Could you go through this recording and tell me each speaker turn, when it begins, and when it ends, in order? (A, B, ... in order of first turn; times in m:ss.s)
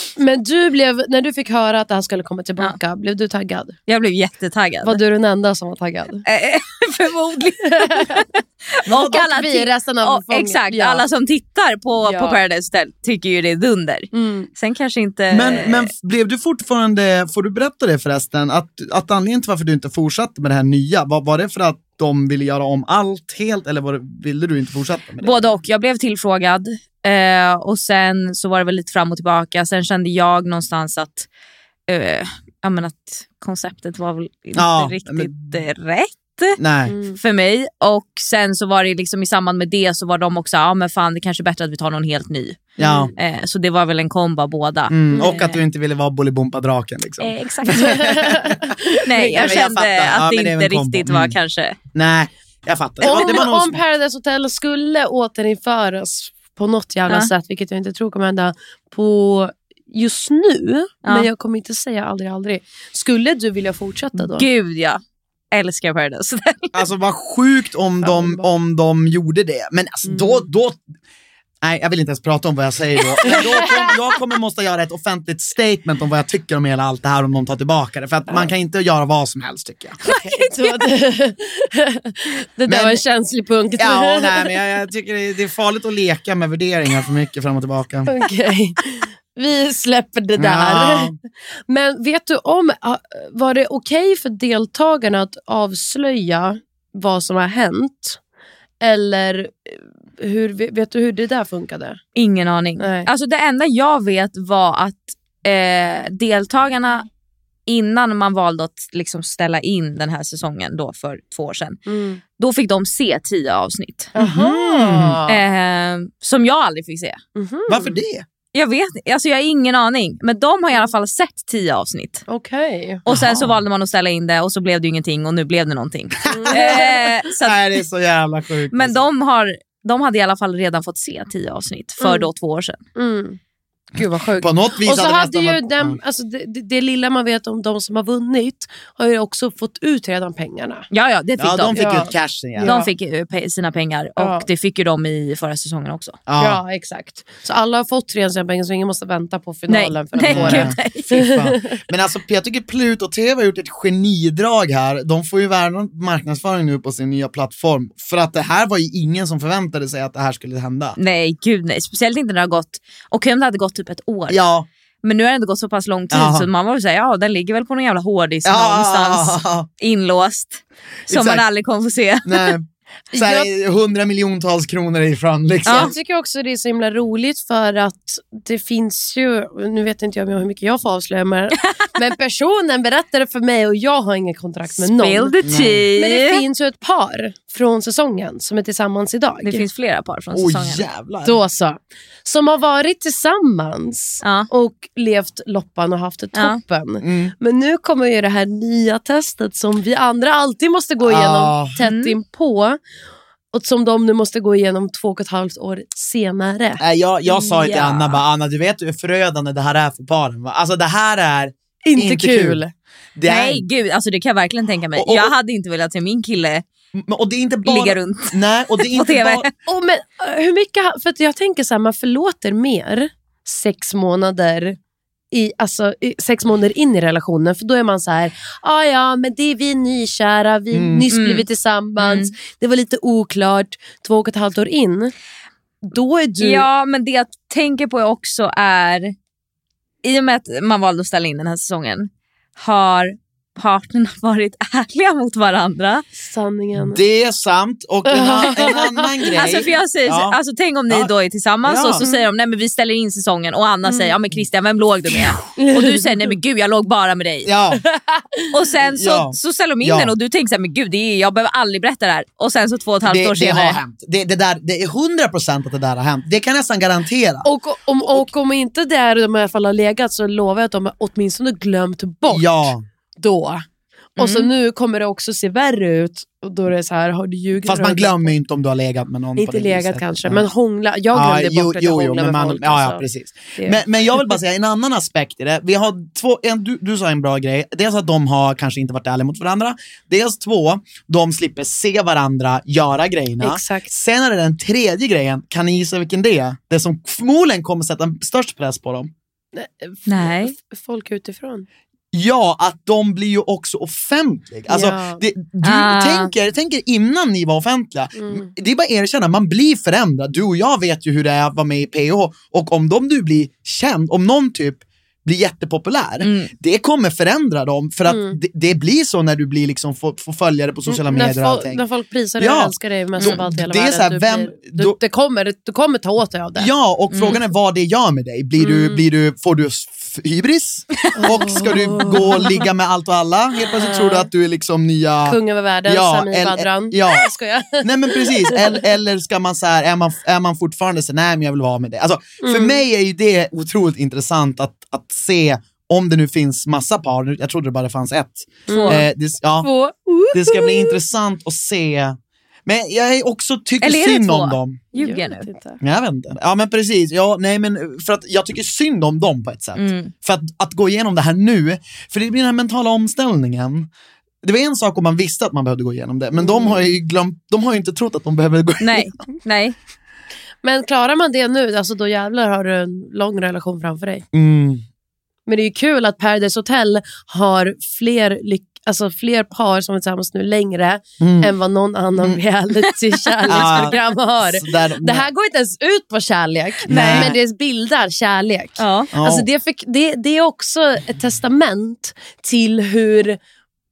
0:00.2-0:03.8 A
0:03.9-0:05.0 B
0:04.8-0:06.2 A
0:06.2-0:15.9 B
0:07.8-0:08.2 A
0:08.9-0:11.0 A
0:12.0-0:12.4 A
0:14.1-0:14.5 A
0:15.3-0:25.4 C
0:25.2-0:31.3 B
0:31.9-0:36.6 B
0:34.6-0:35.4 C
0:36.6-0:36.9 C
0:36.9-0:37.2 A
0:37.2-0:45.6 B
0:42.8-0:43.1 C
0:42.8-0:43.1 A
0:44.9-0:51.4 C
0:45.1-0:45.4 A
0:47.2-0:48.0 B
0:47.6-0:49.6 A
0:49.0-0:51.8 B
0:51.9-0:53.8 C
0:53.0-1:04.5 A
0:53.0-0:53.4 B
1:04.2-1:05.0 B
1:05.5-1:06.8 B
1:06.7-1:10.8 C
1:08.0-1:08.4 A
1:10.0-1:10.4 A
1:11.6-1:20.0 C
1:13.2-1:13.9 A
1:20.0-1:24.5 A
1:22.6-1:23.0 C
1:23.8-1:28.1 C
1:28.0-1:31.1 A
1:30.4-1:31.2 C
1:31.7-1:38.2 A
1:38.8-1:42.0 A
1:42.2-1:47.1 B
1:42.8-1:43.1 A
1:47.7-1:51.8 B
1:51.9-1:52.2 A
1:52.4-1:54.1 B
1:54.1-1:55.4 A
1:54.2-1:55.2 C
1:55.3-1:57.2 B
1:57.4-1:58.0 A
1:57.7-1:58.2 C
1:58.5-2:02.2 B
2:02.3-2:03.0 A
2:03.0-2:07.6 B
2:03.1-2:03.6 C
2:06.3-2:07.1 A
2:06.3-2:09.0 C
2:08.7-2:12.8 B
2:12.0-2:12.3 A
2:13.0-2:13.4 A
2:13.9-2:20.8 A
2:14.4-2:16.0 C
2:20.9-2:22.1 B
2:21.4-2:22.7 C
2:21.7-2:22.9 A
2:22.6-2:26.2 B
2:24.2-2:24.5 A
2:26.3-2:26.6 C
2:26.4-2:31.8 A
2:29.7-2:31.3 B
2:30.2-2:41.0 C
2:41.0-2:44.4 B
2:44.3-2:44.7 C
2:45.0-2:52.6 B
2:46.1-2:46.5 C
2:48.4-2:49.7 C
2:51.1-2:51.4 C
2:52.2-2:55.9 C
2:53.1-2:53.5 A
2:55.6-2:55.9 B
2:55.7-3:05.3 A
3:04.8-3:06.4 B
3:05.4-3:05.8 C
3:06.0-3:09.6 A
3:09.4-3:10.8 B
3:10.3-3:11.4 C
3:11.2-3:22.8 A
3:14.2-3:14.5 B
3:17.0-3:17.3 C
3:21.0-3:21.8 C
3:21.8-3:22.1 B
3:23.5-3:26.8 A
3:26.8-3:32.6 C
3:27.3-3:27.9 A
3:27.6-3:28.0 B
3:31.8-3:32.7 A
3:33.2-3:33.6 C
3:33.2-3:36.6 B
3:35.0-3:35.3 C
3:36.9-3:39.5 C
3:37.6-3:39.5 B
3:39.6-3:44.8 A
3:45.3-3:55.1 A
3:50.7-3:51.0 C
3:51.1-3:51.4 B
3:52.0-3:52.3 B
3:55.9-3:56.6 A
3:56.4-3:59.1 B
4:00.0-4:06.0 B
4:06.2-4:07.0 A
4:06.8-4:10.4 C
4:08.1-4:09.0 A
4:09.3-4:17.5 B
4:11.6-4:12.0 C
4:13.8-4:14.1 A
4:15.6-4:16.2 A
4:17.4-4:17.8 C
4:17.8-4:18.4 A
4:18.5-4:23.8 B
4:18.9-4:20.1 C
4:23.0-4:27.5 C
4:27.4-4:33.6 A
4:32.3-4:32.8 C
4:34.2-4:38.3 A
4:34.2-4:34.5 B
4:37.6-4:40.5 C
4:39.4-4:43.0 A
4:41.1-4:59.1 C
4:43.6-4:44.4 A
4:53.4-4:53.9 A
4:59.5-5:01.6 A
5:00.1-5:00.5 B
5:02.1-5:21.8 C
5:04.7-5:05.2 A
5:05.6-5:06.3 B
5:08.2-5:08.5 A
5:16.2-5:16.5 B
5:18.1-5:18.4 A
5:20.9-5:26.7 A
5:22.4-5:25.0 C
5:26.6-5:37.3 C
5:27.1-5:27.4 B
5:28.6-5:29.0 A
5:31.2-5:32.6 A
5:33.8-5:34.3 A
5:35.2-5:38.8 A
5:37.8-5:49.7 C
5:42.4-5:42.8 A
5:48.7-5:49.1 A
5:48.7-5:49.0 B
5:49.6-5:51.0 A
5:50.3-5:54.8 C
5:53.8-5:55.5 B
5:54.9-5:55.8 A
5:55.8-6:03.9 C
5:59.8-6:00.1 B
6:04.4-6:09.1 C
6:06.4-6:06.8 A
6:08.8-6:09.7 B
6:10.6-6:14.2 A
6:14.3-6:14.8 C
6:15.5-6:33.4 A
6:21.2-6:21.5 C
6:23.4-6:23.9 B
6:23.5-6:25.2 C
6:26.9-6:27.3 B
6:26.9-6:27.3 C
6:28.8-6:29.1 B
6:29.1-6:29.5 C